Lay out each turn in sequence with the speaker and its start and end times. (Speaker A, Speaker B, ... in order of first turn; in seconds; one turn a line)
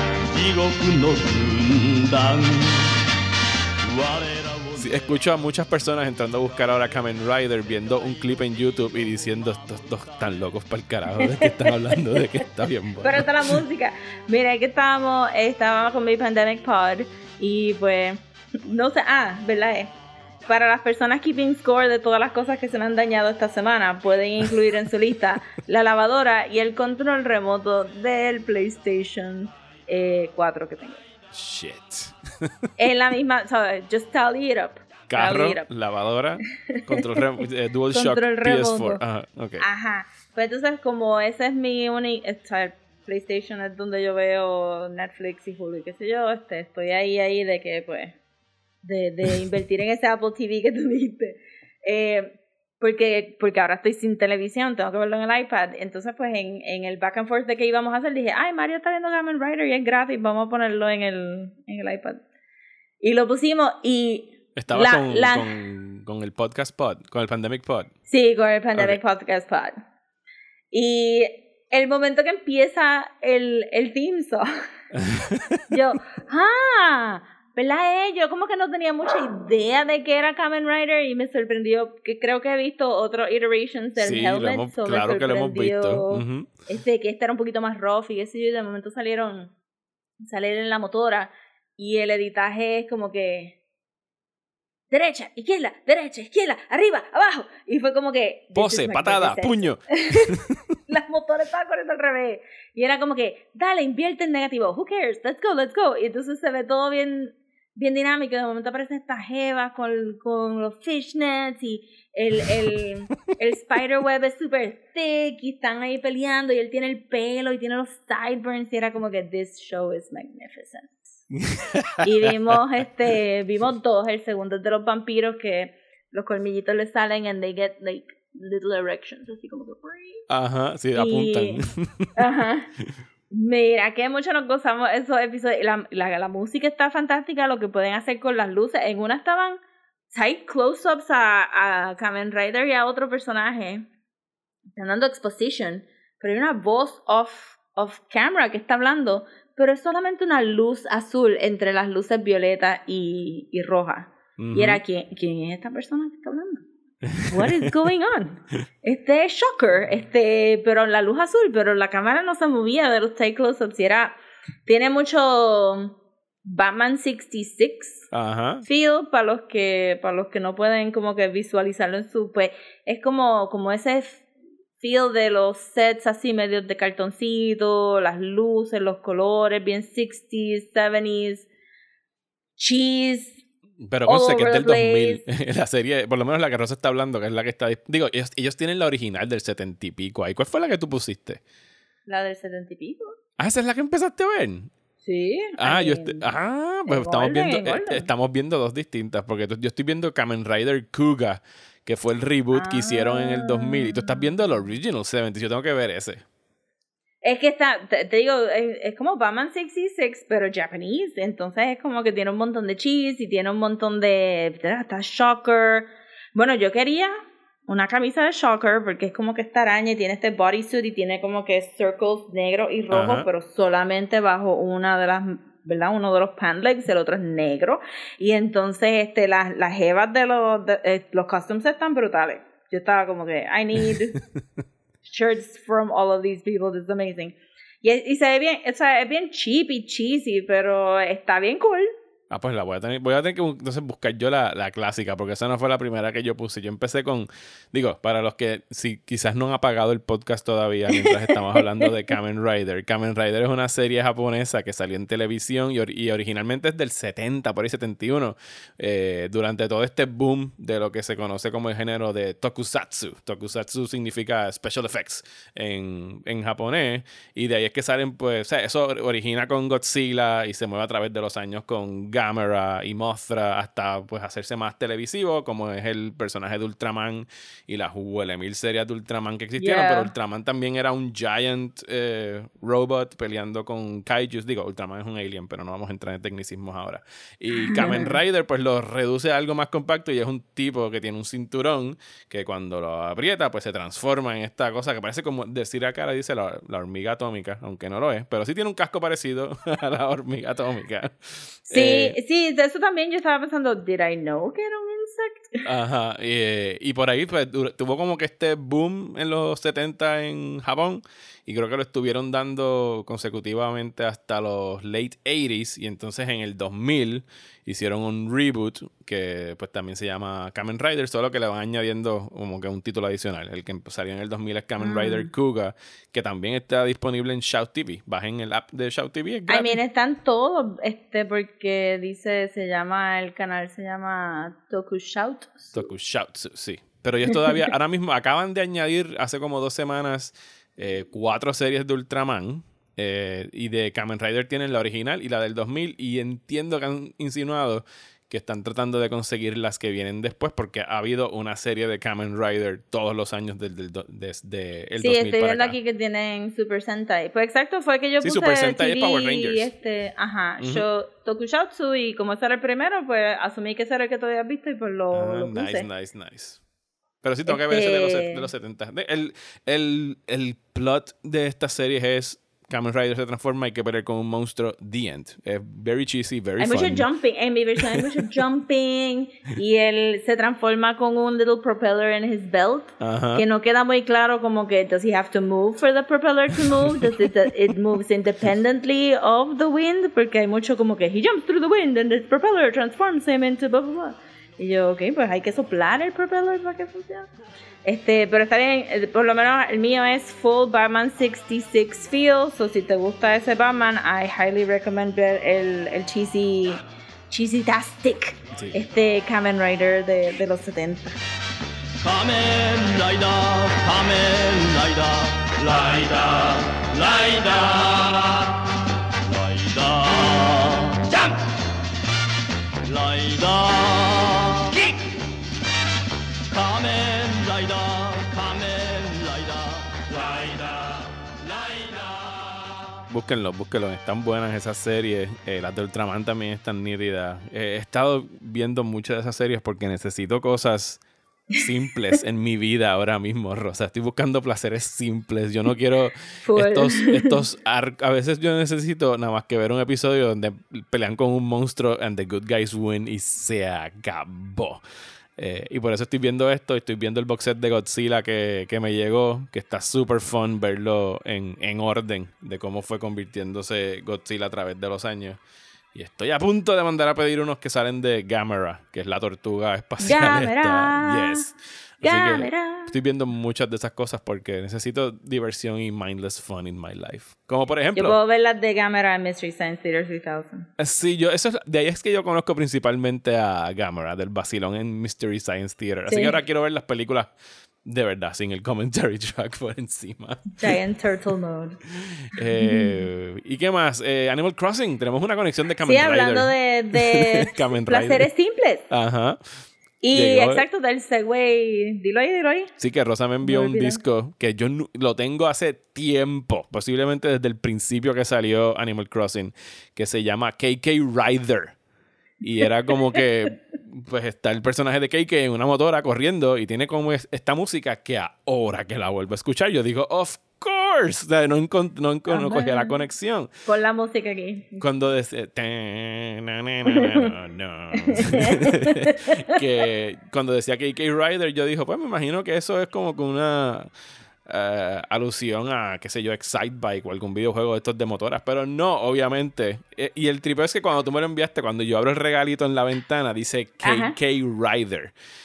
Speaker A: 0.3-2.8
Speaker A: 3.9-4.9
Speaker B: 4.8-13.6
Speaker C: 11.1-12.2
Speaker C: 13.0-19.9
Speaker C: 20.5-31.0
Speaker B: 31.3-32.5
Speaker C: 32.8-35.7
Speaker B: 35.1-39.6
Speaker C: 36.7-39.0
Speaker C: 39.6-48.2
Speaker C: 48.8-62.2
Speaker C: 63.0-65.5
Speaker B: 64.6-67.9
Speaker C: 68.1-69.8
Speaker C: 70.7-74.5
Speaker B: 74.9-75.7
Speaker C: 75.7-89.5
Speaker B: 84.0-86.5
Speaker C: 90.2-93.5
Speaker C: 94.9-100.3
Speaker B: 98.5-100.7
Speaker C: 100.9-121.1
Speaker B: 121.4-122.6
Speaker C: 122.0-130.2
Speaker B: 130.3-132.1
Speaker C: 130.9-131.6
Speaker C: 132.2-132.7
Speaker C: 133.3-139.6
Speaker C: 140.1-143.8
Speaker C: 144.8-156.6
Speaker B: 154.4-154.8
Speaker B: 157.1-157.8
Speaker C: 157.3-168.1
Speaker B: 168.1-168.7
Speaker C: 168.7-174.2
Speaker C: 174.8-181.5
Speaker C: 182.6-183.4
Speaker B: 183.8-191.4
Speaker C: 184.1-185.2
Speaker C: 192.1-193.2
Speaker B: 193.4-194.7
Speaker C: 195.0-196.3
Speaker B: 195.6-206.2
Speaker C: 196.9-198.1
Speaker C: 202.5-204.3
Speaker C: 207.2-217.1
Speaker C: 217.7-234.2
Speaker B: 222.9-223.3
Speaker C: 235.0-241.9
Speaker B: 242.3-302.2
Speaker C: 250.9-251.9
Speaker C: 279.6-280.1
Speaker C: 287.6-288.1
Speaker C: 301.7-305.6
Speaker B: 305.6-329.8
Speaker C: 324.8-325.3
Speaker C: 329.5-335.8
Speaker B: 335.7-355.8
Speaker C: 355.0-365.9
Speaker B: 358.2-359.7
Speaker B: 360.6-360.9
Speaker B: 365.1-366.6
Speaker B: 367.2-377.1
Speaker C: 367.5-368.5
Speaker C: 376.6-397.3
Speaker B: 383.0-383.4
Speaker B: 386.6-387.3
Speaker C: 397.9-411.2
Speaker B: 408.5-408.8
Speaker A: 412.0-418.4
Speaker A: 419.3-421.4
Speaker A: 422.9-424.7
Speaker A: 426.5-430.6
Speaker B: 433.1-441.0
Speaker B: 441.6-454.8
Speaker C: 446.4-447.4
Speaker B: 455.4-465.4
Speaker B: 465.9-478.2
Speaker C: 470.0-471.5
Speaker C: 472.0-472.9
Speaker C: 477.9-480.6
Speaker B: 480.8-487.3
Speaker C: 486.1-486.4
Speaker B: 487.9-490.6
Speaker C: 490.6-491.8
Speaker B: 492.0-498.3
Speaker C: 492.6-493.0
Speaker C: 495.9-498.9
Speaker B: 498.9-499.4
Speaker C: 500.0-502.7
Speaker B: 500.1-500.6
Speaker B: 502.8-511.8
Speaker C: 503.4-504.0
Speaker B: 512.4-523.5
Speaker C: 522.3-523.0
Speaker C: 523.7-524.8
Speaker B: 524.8-533.9
Speaker C: 526.9-527.3
Speaker C: 528.0-529.5
Speaker B: 534.5-545.1
Speaker C: 543.8-544.2